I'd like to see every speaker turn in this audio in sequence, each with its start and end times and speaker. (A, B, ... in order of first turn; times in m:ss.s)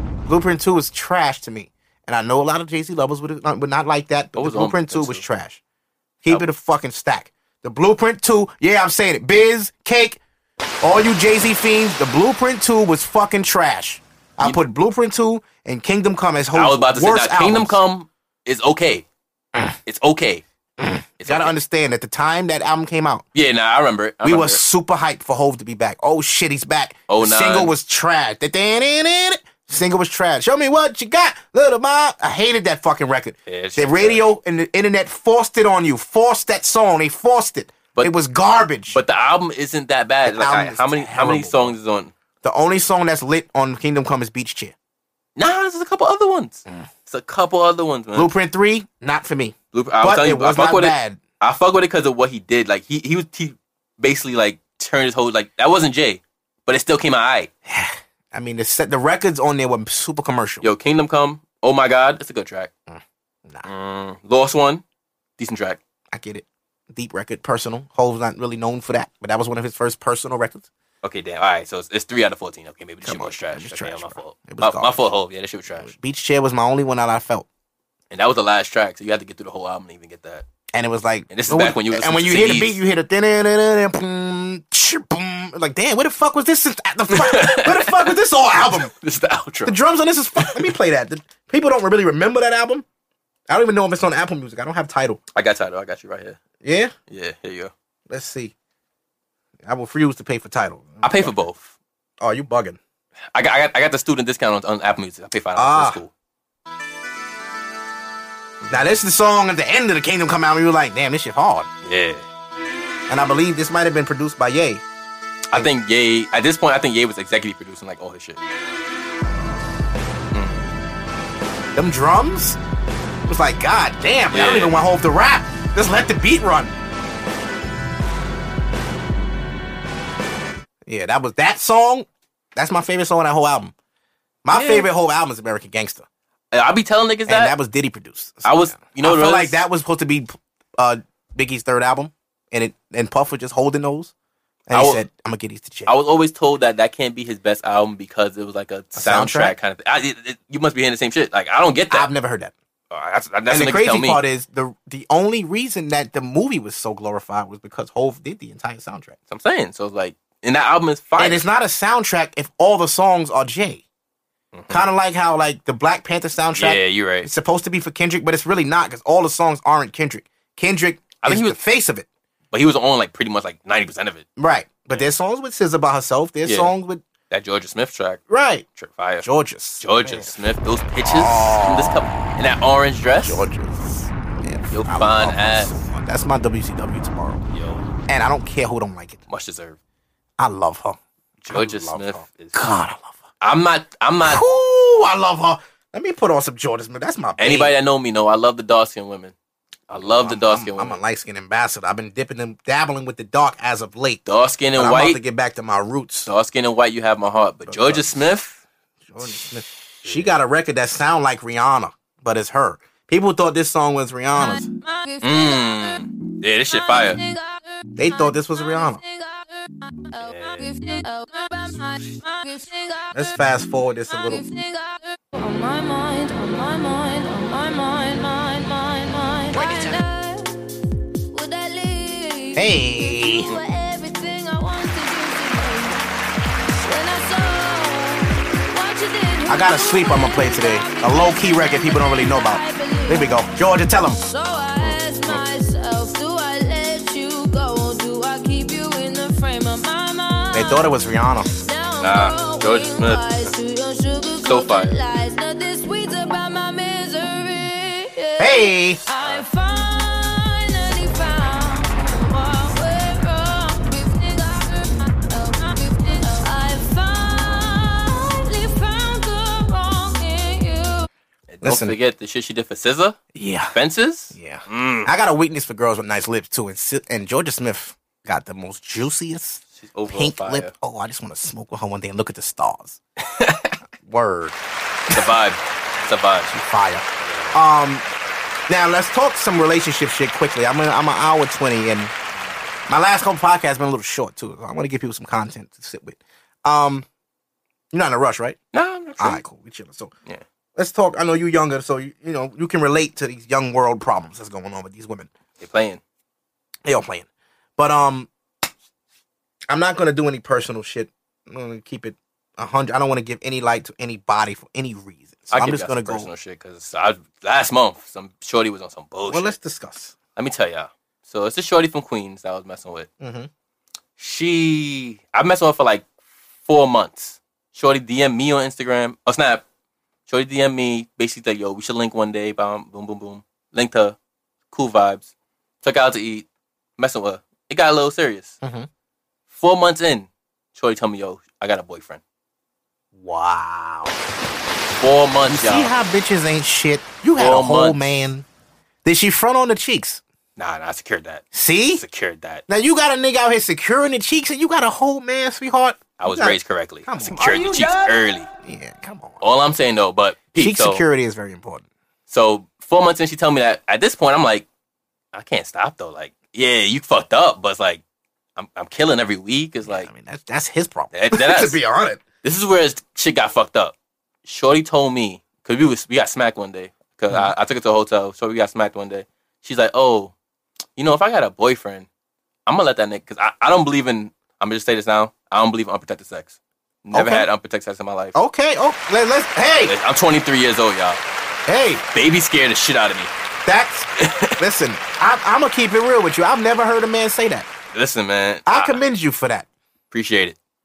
0:00.3-0:05.6 A
0:04.4-0:05.3 B
0:06.2-0:10.2 A
0:10.8-0:17.8 A
0:16.5-0:19.1 B
0:19.8-0:20.4 B
0:20.8-0:23.3 A
0:21.2-0:21.6 B
0:23.4-0:24.6 B
0:24.2-0:39.0 A
0:27.1-0:27.7 B
0:33.4-0:34.3 B
0:38.9-0:42.1 B
0:40.2-0:41.8 A
0:42.4-0:44.7 A
0:45.4-0:48.3 B
0:48.2-0:51.2 A
0:49.7-0:57.5 B
0:57.7-1:00.7 A
1:00.6-1:02.7 B
1:02.9-1:03.7 A
1:03.6-1:04.8 B
1:05.4-1:05.8 B
1:06.1-1:10.7 A
1:11.0-1:15.9 B
1:13.0-1:15.0 A
1:15.7-1:17.4 A
1:18.1-1:20.4 B
1:20.7-1:28.9 A
1:21.3-1:22.8 B
1:27.1-1:29.8 B
1:29.7-1:32.8 A
1:30.4-1:30.7 B
1:33.5-1:35.2 A
1:35.4-1:36.4 B
1:36.6-1:36.9 A
1:37.1-1:37.7 B
1:38.1-1:38.5 A
1:39.6-1:41.4 A
1:41.0-1:41.7 B
1:42.2-1:42.8 A
1:43.4-1:46.1 B
1:45.6-1:46.0 A
1:48.6-1:49.0 B
1:48.7-1:51.7 A
1:51.8-1:52.2 B
1:53.1-1:54.8 A
1:55.5-1:58.4 B
2:00.3-2:00.6 B
2:01.7-2:02.6 A
2:03.3-2:06.7 A
2:04.3-2:04.8 B
2:10.8-2:13.7 A
2:14.4-2:16.0 A
2:14.5-2:14.9 B
2:16.5-2:17.6 B
2:17.3-2:24.1 A
2:18.4-2:19.7 B
2:24.7-2:25.9 A
2:24.7-2:25.0 B
2:25.9-2:32.1 B
2:29.0-2:29.6 A
2:31.9-2:32.5 A
2:32.9-2:34.2 B
2:33.5-2:39.2 A
2:39.3-2:41.4 B
2:41.2-2:43.8 A
2:44.5-2:44.9 B
2:44.7-2:52.1 A
2:46.6-2:47.3 B
2:51.2-2:51.6 B
2:52.5-2:54.2 B
2:54.4-2:57.0 A
2:56.4-2:56.7 B
2:57.3-2:58.2 B
2:58.3-2:58.6 A
2:58.8-2:59.3 B
2:59.2-3:00.3 A
2:59.8-3:03.4 B
3:01.0-3:02.2 A
3:03.2-3:07.4 A
3:04.7-3:05.8 B
3:07.5-3:07.9 B
3:08.1-3:09.2 A
3:09.3-3:09.8 B
3:10.4-3:13.3 A
3:11.4-3:12.6 B
3:13.4-3:14.4 B
3:14.2-3:17.7 A
3:17.4-3:19.3 B
3:19.9-3:21.0 B
3:20.0-3:26.3 A
3:24.3-3:25.2 B
3:26.3-3:28.6 B
3:27.7-3:28.3 A
3:29.1-3:34.6 A
3:29.2-3:30.4 B
3:34.4-3:36.1 C
3:35.2-3:37.2 B
3:36.7-3:43.6 C
3:38.0-3:39.0 A
3:40.2-3:40.7 B
3:43.1-3:44.4 A
3:44.1-3:50.6 C
3:51.3-3:56.0 C
3:52.6-3:53.5 A
3:56.7-4:31.1 C
3:59.5-4:04.2 A
4:04.8-4:05.4 B
4:10.5-4:11.5 A
4:12.0-4:13.3 B
4:14.4-4:15.0 B
4:18.4-4:19.0 A
4:19.2-4:19.4 B
4:31.5-4:33.2 B
4:31.6-4:32.0 A
4:33.3-4:33.8 A
4:33.7-4:35.1 B
4:34.3-4:43.0 A
4:39.8-4:40.7 B
4:43.2-4:43.8 B
4:44.0-4:44.6 A
4:45.1-4:46.5 B
4:46.5-4:48.0 A
4:47.2-4:47.6 B
4:48.7-4:52.1 A
4:52.9-4:57.1 A
4:57.9-4:58.6 A
4:58.7-4:59.4 B
4:59.2-5:00.1 A
5:00.7-5:05.3 A
5:05.6-5:06.0 B
5:06.8-5:08.3 A
5:09.7-5:16.3 A
5:15.5-5:19.6 B
5:19.3-5:20.2 A
5:20.4-5:23.1 B
5:23.2-5:23.5 A
5:24.2-5:26.1 B
5:26.6-5:29.6 B
5:30.3-5:34.2 B
5:34.7-5:35.3 B
5:35.8-5:36.4 B
5:37.0-5:38.6 B
5:38.6-5:38.9 A
5:39.5-5:42.2 B
5:43.1-5:44.1 A
5:45.0-5:46.0 B
5:45.5-5:48.4 A
5:47.4-5:48.0 B
5:49.0-5:50.2 A
5:50.6-5:51.4 B
5:51.5-5:52.0 A
5:52.0-5:52.6 B
5:52.7-5:59.4 A
5:56.2-5:58.5 B
5:59.4-6:01.0 B
6:00.6-6:01.9 A
6:02.3-6:04.7 B
6:05.3-6:08.0 B
6:08.6-6:10.1 B
6:09.8-6:12.2 A
6:11.1-6:11.8 B
6:12.4-6:13.9 B
6:14.4-6:20.3 B
6:21.0-6:22.1 B
6:22.7-6:28.4 B
6:27.1-6:27.5 A
6:28.4-6:30.0 A
6:29.8-6:31.2 B
6:31.7-6:32.0 A
6:32.1-6:33.3 B
6:33.6-6:37.7 A
6:34.2-6:34.6 B
6:37.9-6:39.0 B
6:38.7-6:39.7 A
6:40.1-6:40.6 B